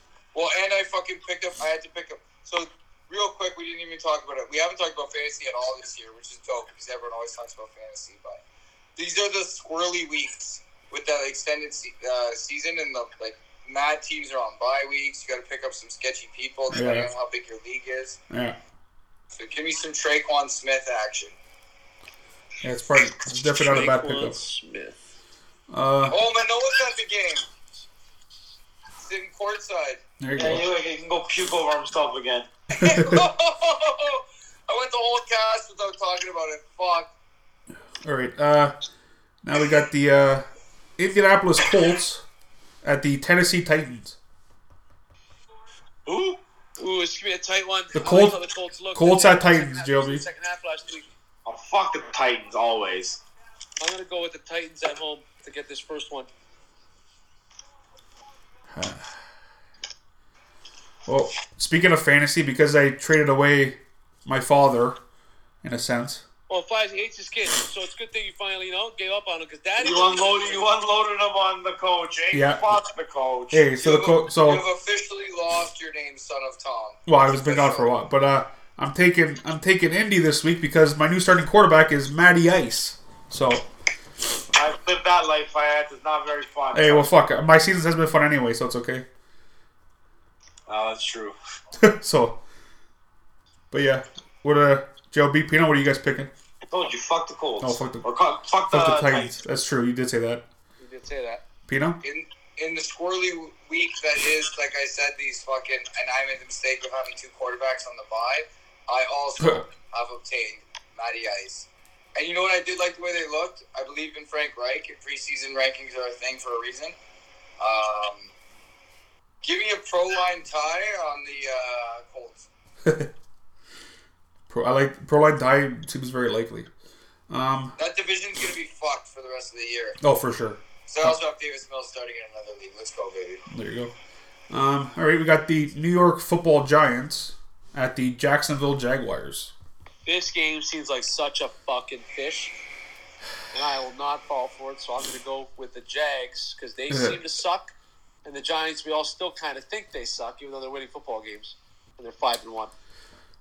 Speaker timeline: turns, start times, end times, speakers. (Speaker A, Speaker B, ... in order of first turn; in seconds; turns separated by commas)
Speaker A: 0.3-8.4, Speaker A: 8.9-18.2, Speaker B: 16.7-17.1, Speaker B: 18.3-18.6, Speaker A: 19.4-21.4, Speaker B: 22.6-24.4, Speaker C: 23.6-25.0, Speaker B: 25.7-26.2, Speaker A: 26.1-27.4, Speaker A: 29.0-30.0, Speaker B: 30.2-30.6, Speaker D: 30.4-32.5, Speaker A: 32.7-37.1, Speaker B: 32.7-33.2, Speaker B: 38.0-38.7, Speaker B: 39.4-40.4, Speaker B: 41.0-42.2, Speaker B: 42.8-44.1, Speaker D: 46.0-46.4, Speaker C: 46.8-51.0, Speaker B: 47.9-48.4, Speaker B: 48.9-50.2, Speaker D: 51.4-53.2, Speaker C: 53.8-56.3, Speaker B: 58.7-59.1, Speaker B: 61.0-65.0, Speaker B: 65.6-66.2, Speaker C: 66.5-70.7, Speaker D: 69.8-73.6, Speaker B: 72.3-72.7, Speaker B: 73.5-74.6, Speaker A: 73.8-77.8, Speaker B: 77.1-83.7, Speaker D: 84.5-87.1, Speaker B: 86.7-89.0, Speaker D: 90.7-91.3, Speaker B: 91.8-92.4, Speaker B: 93.7-96.3, Speaker D: 96.7-99.3, Speaker B: 97.6-98.0, Speaker B: 98.7-100.4, Speaker C: 100.8-101.4, Speaker B: 101.7-102.0, Speaker A: 102.0-117.0, Speaker A: 117.6-118.3, Speaker A: 119.4-122.4, Speaker B: 122.8-123.1, Speaker B: 124.5-126.7, Speaker B: 127.3-127.7, Speaker A: 127.8-130.0, Speaker B: 130.0-131.2, Speaker A: 130.9-133.4, Speaker B: 133.5-133.9, Speaker B: 134.5-139.5, Speaker C: 140.1-142.5, Speaker C: 143.5-147.7, Speaker B: 146.9-147.2, Speaker C: 148.2-152.7